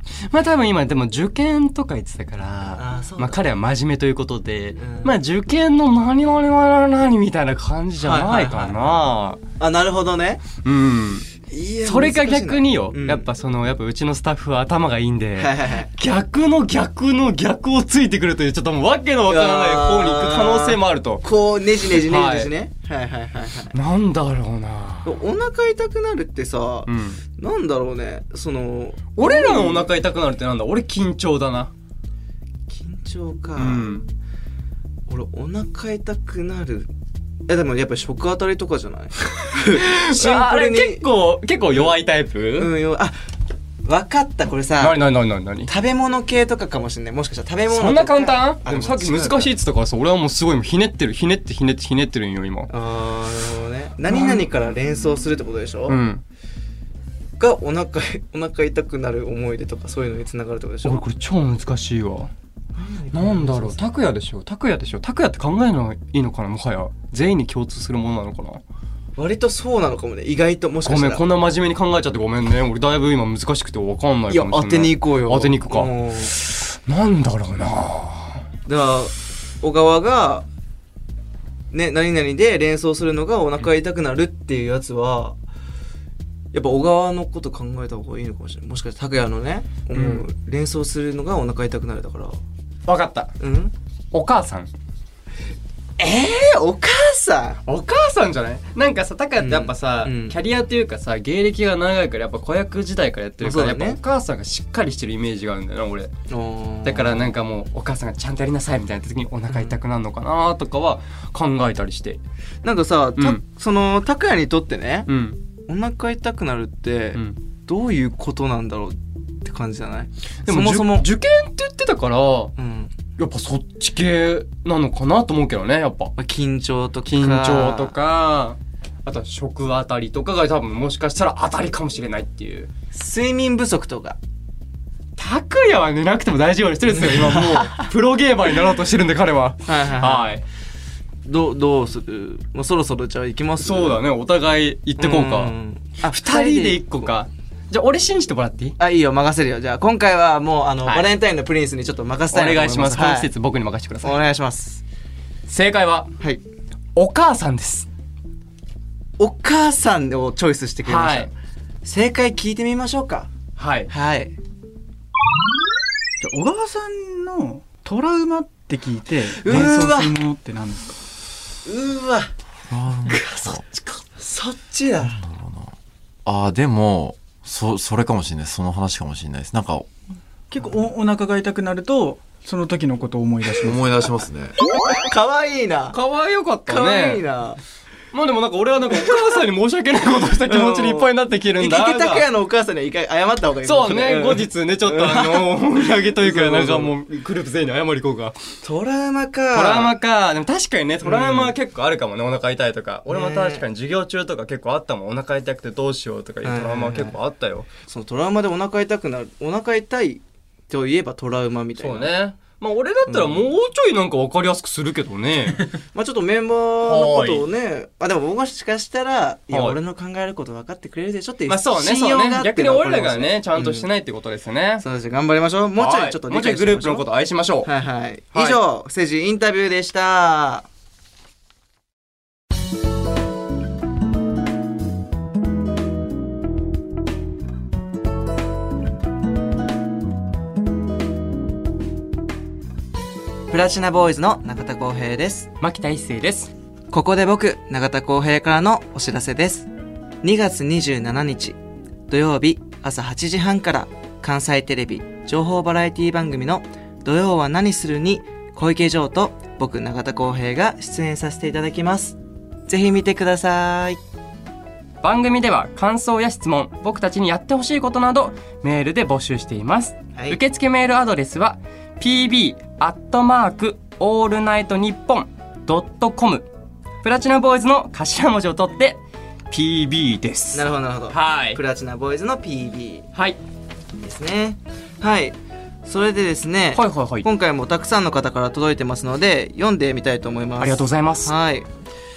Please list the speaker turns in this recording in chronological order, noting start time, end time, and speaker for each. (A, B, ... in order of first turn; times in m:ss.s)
0:00.3-0:09.4 A
0:02.8-0:03.4 B
0:04.8-0:05.2 B
0:08.0-0:09.0 B
0:09.6-0:10.4 B
0:10.6-0:11.3 A
0:11.5-0:13.3 B
0:11.8-0:21.2 A
0:15.4-0:15.9 B
0:19.3-0:23.8 B
0:21.9-0:22.5 A
0:23.7-0:25.1 A
0:25.0-0:29.9 B
0:26.9-0:27.2 A
0:29.2-0:31.7 A
0:32.7-0:33.9 B
0:33.6-0:34.0 A
0:35.1-0:36.9 B
0:37.5-0:41.0 B
0:39.7-0:42.7 A
0:42.6-0:43.2 B
0:43.8-0:45.0 B
0:44.8-0:45.7 A
0:45.7-0:49.5 B
0:47.7-0:52.7 A
0:52.7-0:56.0 B
0:54.1-0:54.4 A
0:55.9-0:56.2 A
0:57.4-1:01.0 B
1:00.8-1:02.3 A
1:02.8-1:03.8 B
1:03.1-1:08.6 A
1:09.2-1:11.2 B
1:10.8-1:18.4 A
1:14.3-1:16.3 B
1:18.7-1:20.4 B
1:21.7-1:25.4 B
1:26.5-1:32.4 B
1:30.0-1:30.2 A
1:32.9-1:33.3 A
1:33.4-1:33.7 B
1:34.1-1:34.7 A
1:36.0-1:37.6 B
1:37.7-1:46.1 A
1:39.4-1:40.4 B
1:43.4-1:44.0 B
1:46.3-1:47.3 B
1:46.8-1:52.2 A
1:49.5-1:49.8 B
1:52.6-1:55.1 B
1:55.1-1:55.4 A
1:55.7-2:01.1 B
2:00.5-2:02.5 A
2:02.6-2:03.0 B
2:03.2-2:06.1 A
2:06.2-2:08.0 B
2:07.1-2:12.7 A
2:12.9-2:14.2 B
2:15.2-2:20.4 A
2:16.9-2:17.9 B
2:19.6-2:20.4 B
2:21.2-2:24.0 B
2:23.6-2:28.8 A
2:25.0-2:27.1 B
2:28.8-2:33.3 B
2:30.8-2:31.1 A
2:32.3-2:34.2 A
2:34.0-2:34.8 B
2:35.5-2:36.1 A
2:37.0-2:37.9 A
2:39.2-2:41.3 B
2:40.8-2:41.3 A
2:41.8-2:43.3 B
2:43.6-2:43.9 A
2:43.9-2:44.4 B
2:46.2-2:51.0 C
2:49.4-2:50.2 B
2:51.6-2:52.3 B
2:52.7-2:53.6 D
2:53.0-2:54.0 A
2:54.2-2:55.2 B
2:55.1-2:55.7 D
2:56.3-2:59.9 D
3:00.5-3:04.1 C
3:03.6-3:04.5 D
3:04.9-3:06.0 B
3:05.9-3:07.2 A
3:06.7-3:07.6 B
3:08.1-3:12.2 A
3:10.4-3:16.9 B
3:13.6-3:18.4 A
3:18.6-3:19.9 B
3:19.5-3:27.7 A
3:21.0-3:21.5 B
3:23.1-3:23.6 B
3:26.4-3:27.2 B
3:27.9-3:32.1 B
3:31.8-3:35.8 A
3:33.1-3:33.5 B
3:35.9-3:43.9 B
3:36.8-3:37.5 A
3:39.5-3:39.8 A
3:41.5-3:44.8 A
3:44.8-3:47.1 B
3:45.8-3:47.7 A
3:47.6-3:50.7 B
3:48.3-3:48.6 A
4:03.5-4:05.5 B
4:05.6-4:06.5 A
4:06.9-4:09.7 B
4:10.2-4:11.6 B
4:12.1-4:22.2 B
4:22.7-4:24.0 B
4:25.0-4:36.5 A
4:37.0-4:41.6 A
4:40.5-4:43.1 B
4:43.1-4:43.4 A
4:44.0-4:51.7 B
4:46.8-4:47.3 A
4:50.6-4:51.3 A